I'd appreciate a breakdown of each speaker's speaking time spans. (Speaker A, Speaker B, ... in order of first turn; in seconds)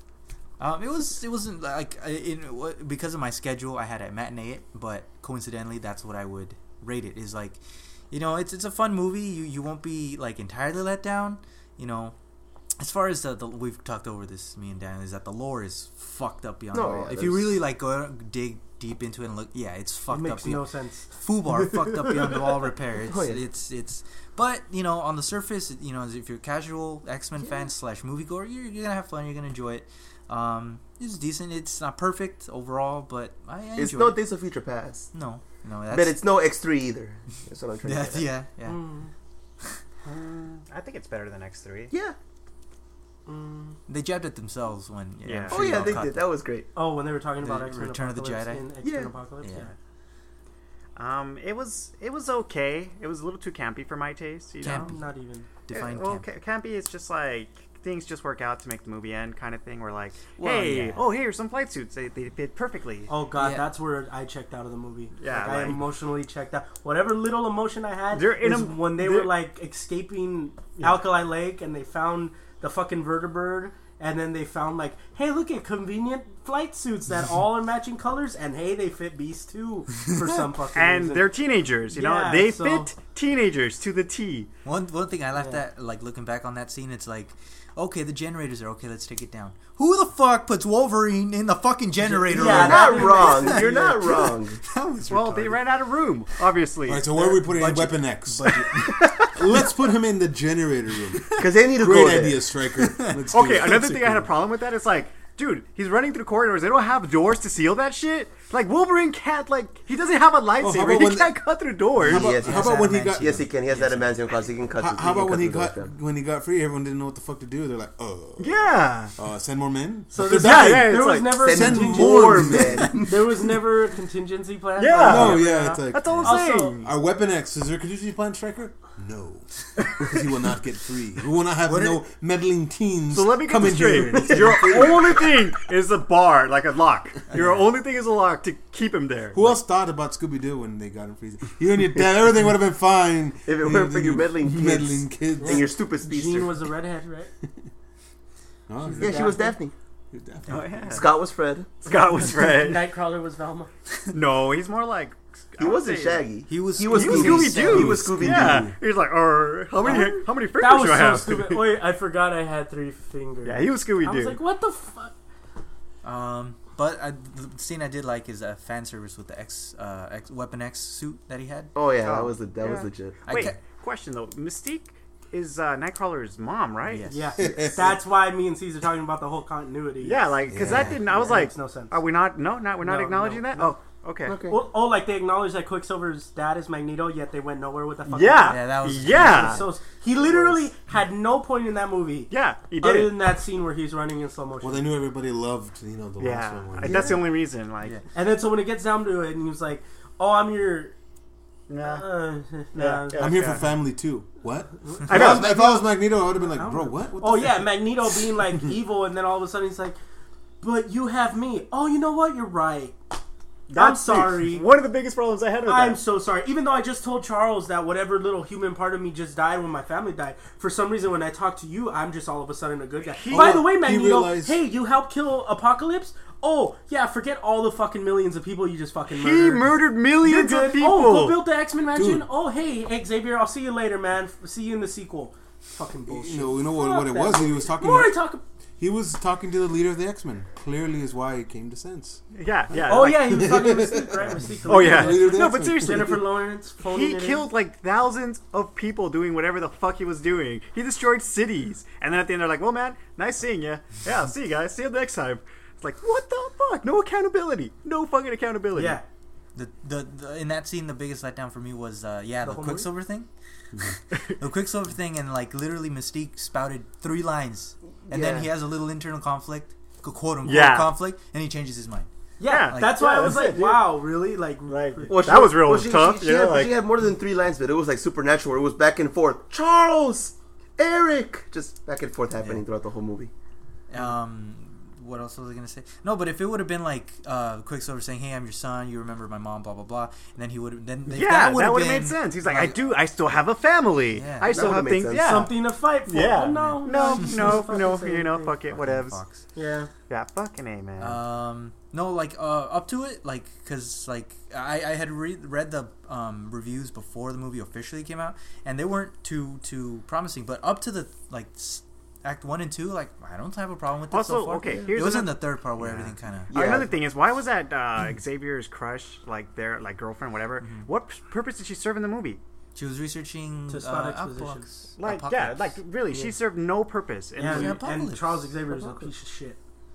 Speaker A: 0.6-7.6, 8.1-12.1, 12.8-34.2, 35.1-36.2, 37.8-38.8, 43.9-46.3, 47.4-48.7, 49.4-49.7, 54.6-55.0, 55.7-56.3, 60.4-61.0, 63.4-63.7, 84.6-95.6, 97.5-99.2, 102.8-103.2, 112.1-114.1, 131.6-132.0, 137.3-137.7, 156.5-158.1, 166.0-171.7, 173.3-173.6, 176.8-177.3, 188.4-189.7, 259.5-263.3, 264.2-272.1, 272.7-273.4, 283.9-293.0, 294.1-294.9, 296.4-297.6, 298.7-299.4, 301.0-316.5, 320.6-320.9, 322.8-325.7, 327.4-328.5
Speaker B: 16.7-17.6, 23.1-23.4, 33.8-35.1, 35.9-38.3, 41.9-42.1, 45.5-46.7, 48.8-49.1, 92.3-94.6, 101.4-102.4, 112.0-115.9, 121.4-123.5, 143.4-146.5, 149.0-149.7, 150.9-151.8, 155.6-158.7, 159.7-160.3, 171.7-173.2, 177.4-177.7, 184.2-184.6, 196.8-197.2, 268.1-268.5, 275.1-283.3, 294.5-295.5, 314.6-314.9, 316.5-316.9, 328.7-329.1
Speaker C: 20.1-21.1, 38.7-39.1, 43.2-43.8, 46.7-49.7, 54.8-55.5, 63.1-81.3, 81.9-82.9, 92.1-94.1, 120.1-126.8, 145.4-147.3, 148.8-149.5, 152.5-153.7, 159.8-165.1, 177.1-181.9, 182.8-183.7, 184.5-194.9, 198.1-200.9, 201.8-203.5, 204.9-210.0, 210.6-213.0, 213.7-214.6, 215.7-238.4, 242.8-247.5, 258.7-259.0, 262.4-262.9, 272.4-275.5, 295.1-298.6, 299.5-299.9, 323.7-324.7, 327.4-329.6
Speaker D: 40.0-41.9, 45.2-45.7, 51.0-54.9, 55.7-63.1, 65.2-65.9, 68.1-69.3, 70.8-71.1, 80.7-84.5, 95.1-97.3, 103.3-112.3, 118.4-119.2, 120.2-121.6, 124.8-126.9, 133.1-139.6, 150.5-151.0, 151.8-152.9, 154.1-156.3, 156.8-161.7, 163.4-164.4, 172.0-177.2, 180.0-184.4, 188.1-189.7, 192.3-193.2, 196.2-198.0, 201.7-203.7, 205.1-205.6, 213.7-216.0, 223.1-223.6, 229.1-231.4, 242.3-243.5, 244.7-246.2, 246.8-259.0, 270.4-270.9, 272.4-274.1, 274.7-276.8, 291.1-299.2, 300.1-301.2, 314.1-315.4, 316.5-322.4, 325.0-327.8
Speaker E: 96.9-104.3, 110.6-111.4, 112.0-113.4, 114.8-123.0, 125.0-135.3, 139.3-145.7, 148.7-149.4, 150.1-151.0, 157.2-158.8, 177.4-177.9, 180.5-181.0, 194.6-197.2, 203.1-208.7, 223.2-224.6, 231.9-232.3, 236.1-238.2, 238.8-242.2, 242.8-246.2, 315.8-316.1